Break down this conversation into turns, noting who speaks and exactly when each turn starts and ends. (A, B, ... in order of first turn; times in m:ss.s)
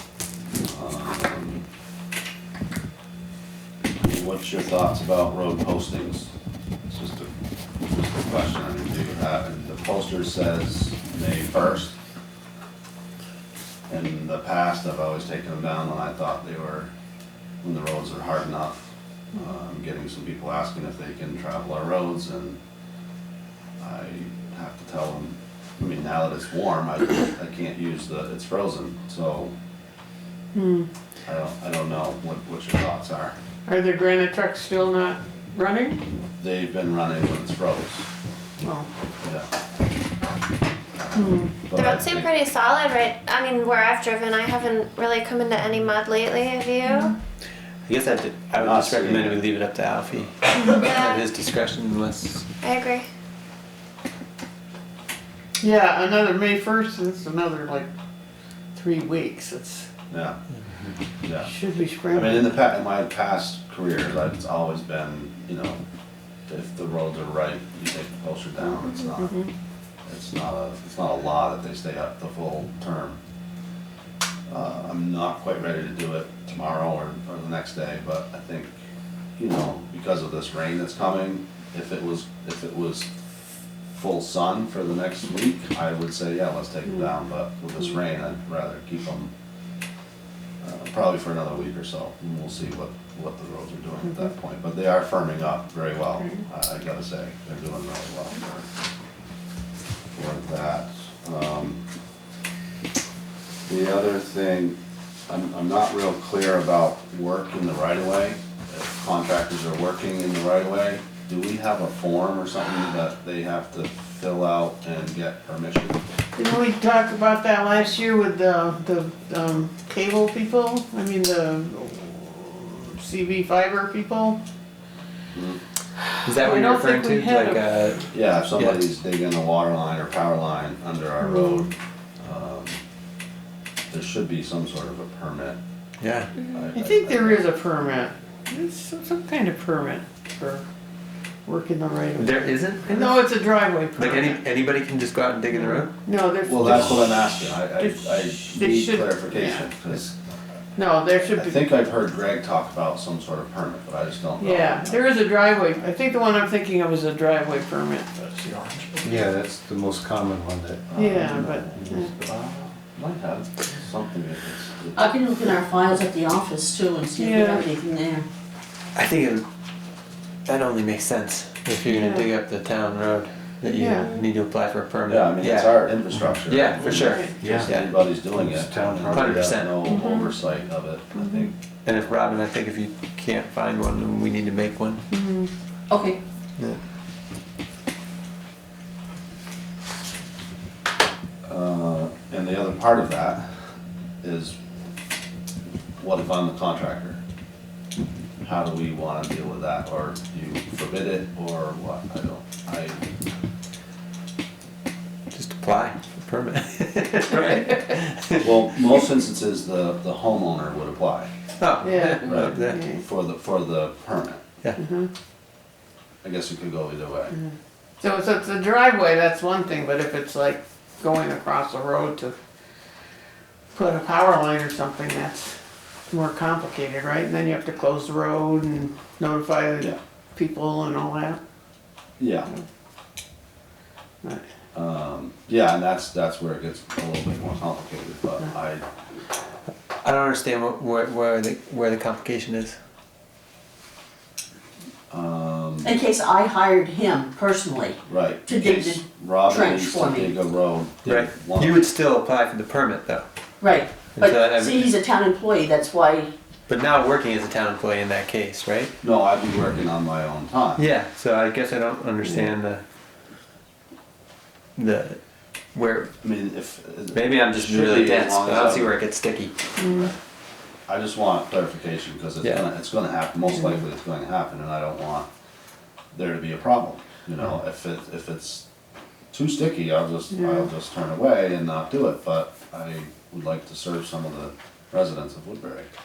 0:00.6-0:01.6 A
0:04.0-0:06.3 A
0:06.9-0:07.3 A
0:07.8-0:11.9 A
0:13.9-0:16.9 A
0:17.6-0:22.6 A
0:23.8-0:29.5 A
0:30.5-0:30.9 B
0:31.2-0:33.4 A
0:33.7-0:36.0 B
0:36.4-0:38.1 A
0:38.6-0:38.9 B
0:39.2-0:39.5 A
0:41.2-0:41.7 B
0:41.7-0:42.3 A
0:41.7-0:47.2 C
0:47.9-0:52.5 D
0:48.6-0:49.4 A
0:50.6-0:51.2 C
0:52.6-0:53.1 C
0:55.6-0:57.9 B
0:58.8-0:59.9 B
1:00.1-1:00.4 A
1:01.2-1:01.5 A
1:01.4-1:02.5 B
1:02.1-1:05.8 A
1:06.5-1:09.4 A
1:09.2-1:09.5 B
1:10.1-1:13.2 A
1:14.5-1:18.8 A
1:19.4-1:23.1 A
1:23.9-1:29.3 A
1:30.6-1:38.7 A
1:40.2-1:41.8 A
1:43.7-1:44.8 A
1:45.3-1:56.0 A
1:56.4-2:04.4 B
2:05.3-2:05.6 A
2:06.2-2:08.9 D
2:06.3-2:07.9 B
2:08.1-2:11.7 A
2:11.2-2:11.7 B
2:12.2-2:12.8 A
2:13.9-2:15.6 A
2:16.0-2:16.3 D
2:16.5-2:17.5 A
2:16.7-2:20.6 B
2:21.5-2:24.4 B
2:22.2-2:23.1 D
2:24.0-2:25.9 D
2:25.5-2:27.2 B
2:26.4-2:30.1 A
2:27.8-2:29.7 B
2:30.8-2:31.6 B
2:31.3-2:35.2 A
2:34.4-2:39.2 B
2:39.0-2:41.0 E
2:40.9-2:45.2 A
2:41.0-2:42.1 B
2:45.0-2:48.3 F
2:47.2-2:47.6 B
2:49.0-2:49.4 D
2:50.5-2:55.9 D
2:51.8-2:52.3 B
2:53.7-2:54.1 B
2:55.1-3:02.1 A
2:56.5-2:57.9 D
2:56.9-2:57.6 B
2:57.4-2:59.6 E
2:59.1-2:59.8 D
2:59.9-3:00.3 B
3:01.2-3:01.5 B
3:01.8-3:05.0 D
3:05.1-3:05.5 B
3:05.9-3:06.2 F
3:11.5-3:13.5 A
3:14.2-3:14.6 A
3:16.0-3:17.2 A
3:18.4-3:23.0 A
3:25.3-3:28.5 D
3:28.4-3:31.3 A
3:31.6-3:32.8 D
3:31.8-3:33.0 B
3:32.2-3:34.4 A
3:34.8-3:35.1 B
3:36.2-3:37.4 A
3:37.4-3:42.4 B
3:43.7-3:45.6 B
3:46.1-3:51.4 B
3:52.2-3:52.5 A
3:54.7-3:58.9 A
4:00.0-4:02.8 D
4:05.1-4:06.0 A
4:05.8-4:10.3 F
4:08.1-4:11.8 A
4:11.0-4:13.3 D
4:13.6-4:16.3 F
4:14.2-4:14.9 D
4:16.7-4:18.9 D
4:19.0-4:20.8 A
4:20.8-4:22.8 D
4:24.8-4:25.2 D
4:25.7-4:26.1 D
4:26.2-4:29.0 A
4:27.1-4:29.5 D
4:29.8-4:30.1 B
4:30.9-4:35.3 A
4:36.1-4:38.6 A
4:39.3-4:45.9 A
4:40.3-4:40.6 B